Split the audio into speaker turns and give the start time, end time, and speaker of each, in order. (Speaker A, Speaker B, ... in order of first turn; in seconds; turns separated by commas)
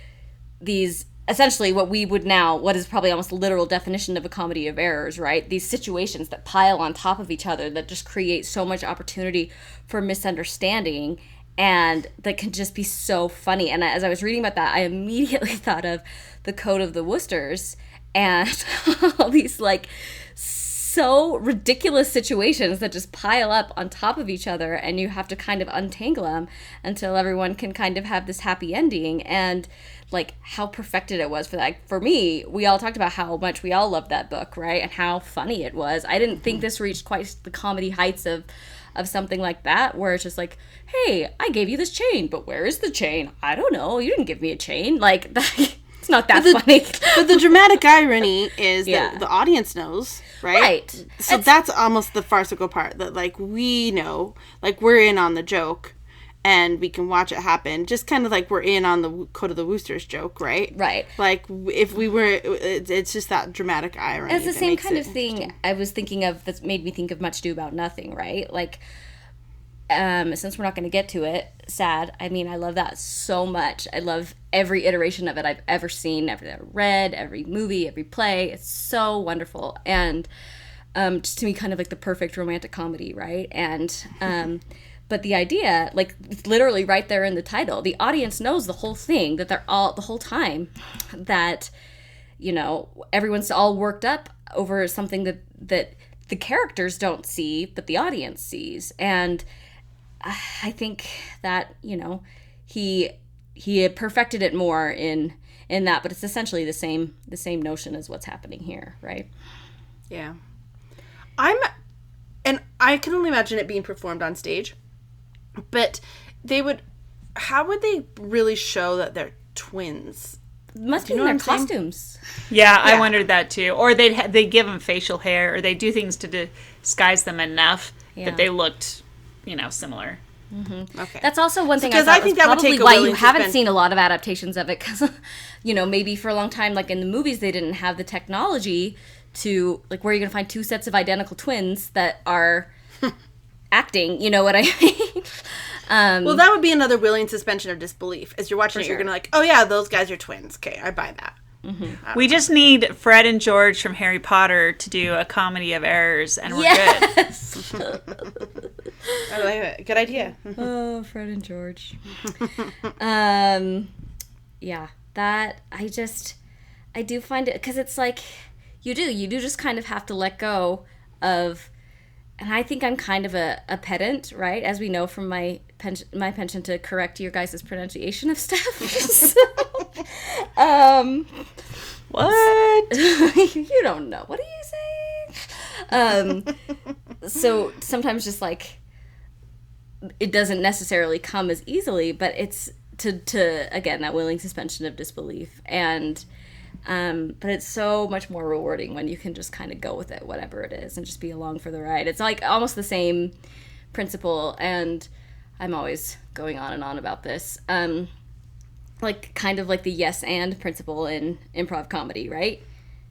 Speaker A: 0.6-47.5, Speaker B: 46.3-46.6, Speaker B: 47.1-65.5, Speaker A: 48.9-49.2, Speaker A: 50.5-51.5, Speaker A: 60.7-61.1, Speaker A: 64.3-68.8, Speaker A: 69.9-80.3, Speaker A: 81.0-91.7, Speaker A: 92.4-99.5, Speaker A: 100.2-109.3, Speaker B: 110.1-110.4, Speaker B: 111.4-111.7, Speaker B: 112.4-114.7, Speaker B: 115.7-116.8, Speaker B: 117.4-120.4, Speaker A: 120.8-122.2, Speaker B: 121.0-121.7, Speaker C: 122.5-130.2, Speaker A: 128.2-128.5, Speaker A: 130.5-142.7, Speaker B: 130.9-131.3, Speaker B: 131.8-133.6, Speaker A: 143.7-146.4, Speaker B: 146.2-151.4, Speaker A: 148.7-149.1, Speaker A: 151.6-152.0, Speaker B: 152.0-152.5, Speaker C: 152.2-157.1, Speaker A: 156.5-158.5, Speaker B: 159.3-160.7, Speaker A: 160.6-162.0, Speaker A: 163.0-163.9, Speaker A: 164.6-166.4, Speaker A: 166.9-171.7, Speaker A: 172.4-181.5, Speaker C: 182.1-182.9, Speaker A: 182.9-186.6, Speaker A: 187.2-188.8, Speaker A: 190.2-196.2, Speaker A: 196.9-203.3, Speaker A: 203.9-205.1, Speaker A: 205.6-208.1, Speaker A: 209.0-212.6